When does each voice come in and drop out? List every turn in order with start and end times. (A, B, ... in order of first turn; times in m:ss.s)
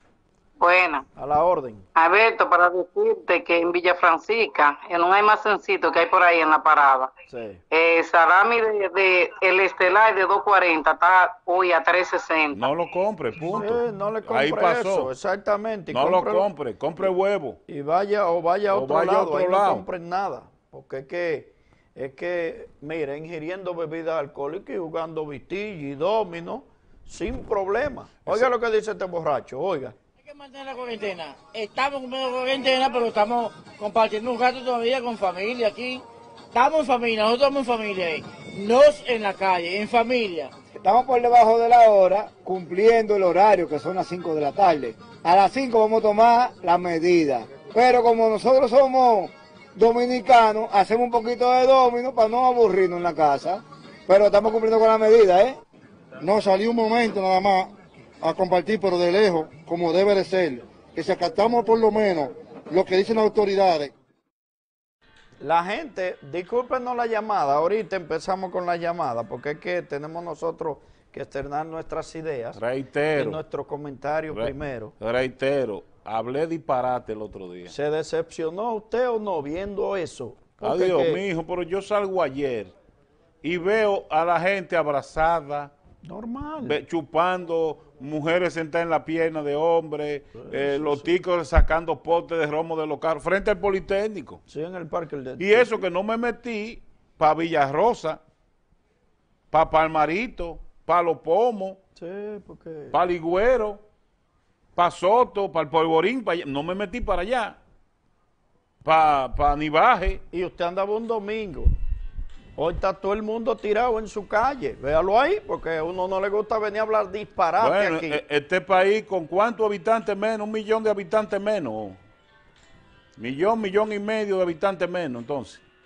0:00.6-0:01.0 A
0:01.2-0:01.8 B
0:02.0-0:07.1 A
0:07.3-0:07.6 B
0:07.7-0:12.6 A
0:12.5-0:15.1 C
0:13.4-0:16.5 B
0:15.9-0:17.6 C
0:17.7-0:29.9 B
0:18.7-0:19.8 C
0:30.3-0:40.5 D
0:40.8-0:55.6 E
0:56.2-0:57.7 F
0:58.2-1:03.9 F
1:05.4-1:12.6 B
1:12.5-1:13.4 C
1:13.1-1:14.9 B
1:14.3-1:17.7 C
1:17.7-1:21.2 B
1:20.6-1:22.7 C
1:23.4-1:25.7 C
1:26.0-1:26.8 B
1:26.6-1:34.4 C
1:30.4-1:31.1 B
1:34.5-1:35.8 B
1:35.4-1:38.2 C
1:39.5-1:41.8 C
1:42.0-1:42.9 B
1:42.9-1:43.8 C
1:44.8-1:47.6 C
1:48.8-1:50.2 C
1:50.3-1:51.7 B
1:52.6-1:58.2 B
1:57.6-2:02.0 C
2:03.2-2:05.6 C